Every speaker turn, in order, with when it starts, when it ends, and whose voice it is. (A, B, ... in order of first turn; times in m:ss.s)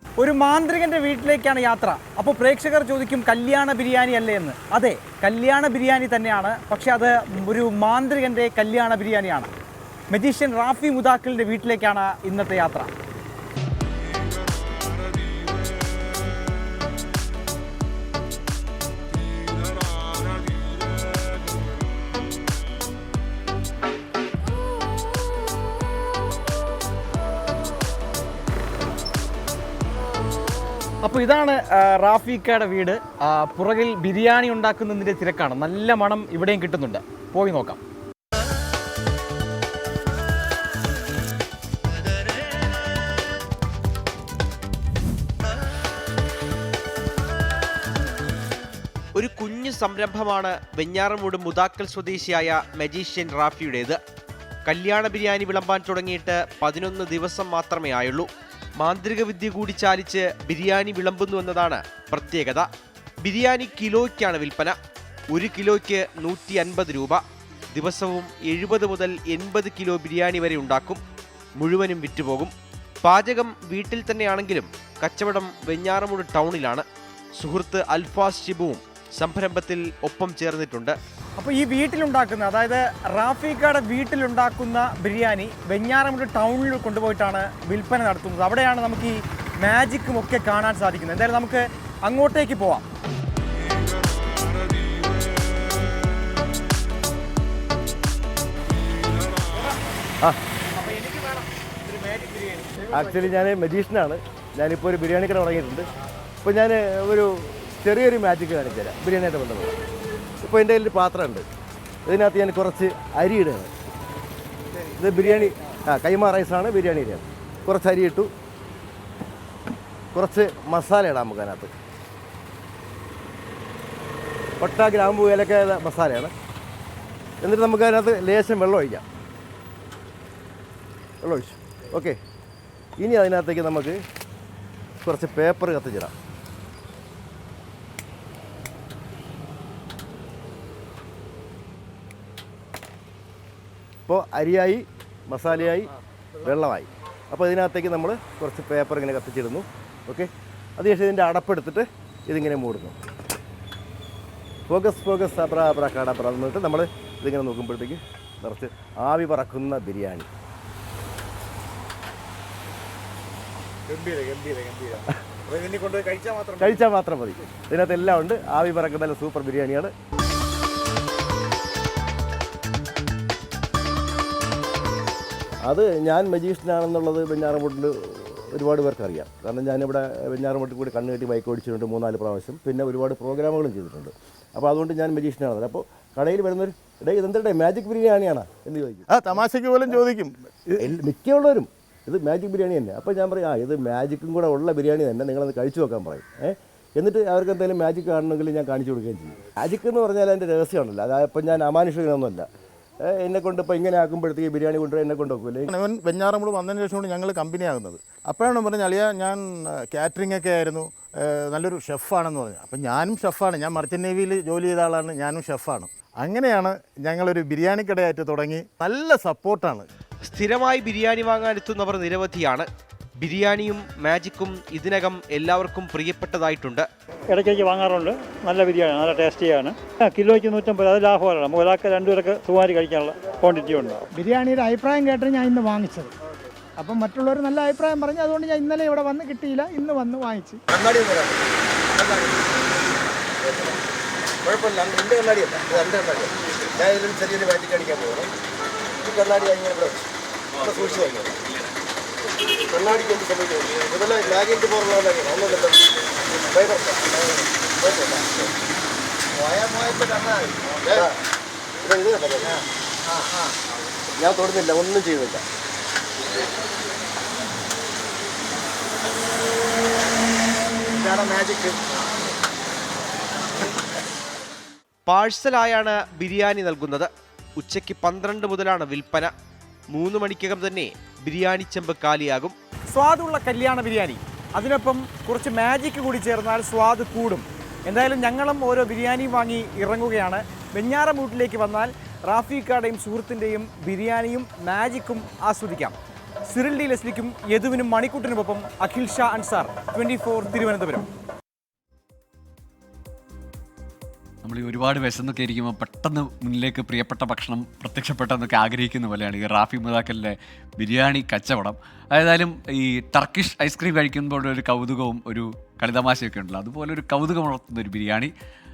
0:00.2-0:09.5 A
0:10.1-0:12.9 A
0:31.0-0:37.8 A
0:49.1-0:54.0 B
0:54.7-1:02.7 B
1:03.2-1:04.8 B
1:05.3-1:07.2 B
1:07.7-1:11.0 B
1:11.6-1:12.5 B
1:13.0-1:16.9 B
1:17.4-1:21.0 B
1:21.4-1:32.9 A
1:40.8-1:42.7 A
1:42.9-1:45.9 C
1:46.4-1:49.8 C
1:50.4-1:51.5 C
1:52.1-1:53.7 C
1:54.9-1:58.3 C
2:00.1-2:01.7 C
2:04.6-2:06.3 C
2:07.4-2:09.0 C
2:11.2-2:12.2 C
2:13.0-2:14.0 C
2:15.0-2:16.1 C
2:24.1-2:33.0 C
2:34.7-2:40.3 C
2:43.9-2:46.8 D
2:46.6-2:49.9 C
2:55.7-3:09.1 C
3:09.1-3:10.9 D
3:10.8-3:22.5 C
3:23.0-3:25.7 C
3:25.7-3:39.9 D
3:40.2-3:42.7 B
3:43.2-3:46.9 B
3:47.3-3:54.1 E
3:54.2-3:56.1 F
3:56.8-4:00.6 F
4:00.7-4:02.5 C
4:03.4-4:03.8 C
4:04.4-4:08.3 C
4:09.0-4:10.0 C
4:10.6-4:11.4 C
4:12.6-4:18.5 C
4:19.4-4:21.1 C
4:21.8-4:22.6 C
4:24.1-4:25.4 C
4:31.0-4:31.8 C
4:35.0-4:39.3 B
4:39.9-4:42.6 B
4:42.9-4:56.0 A
4:56.5-5:01.1 A
5:04.4-5:18.3 G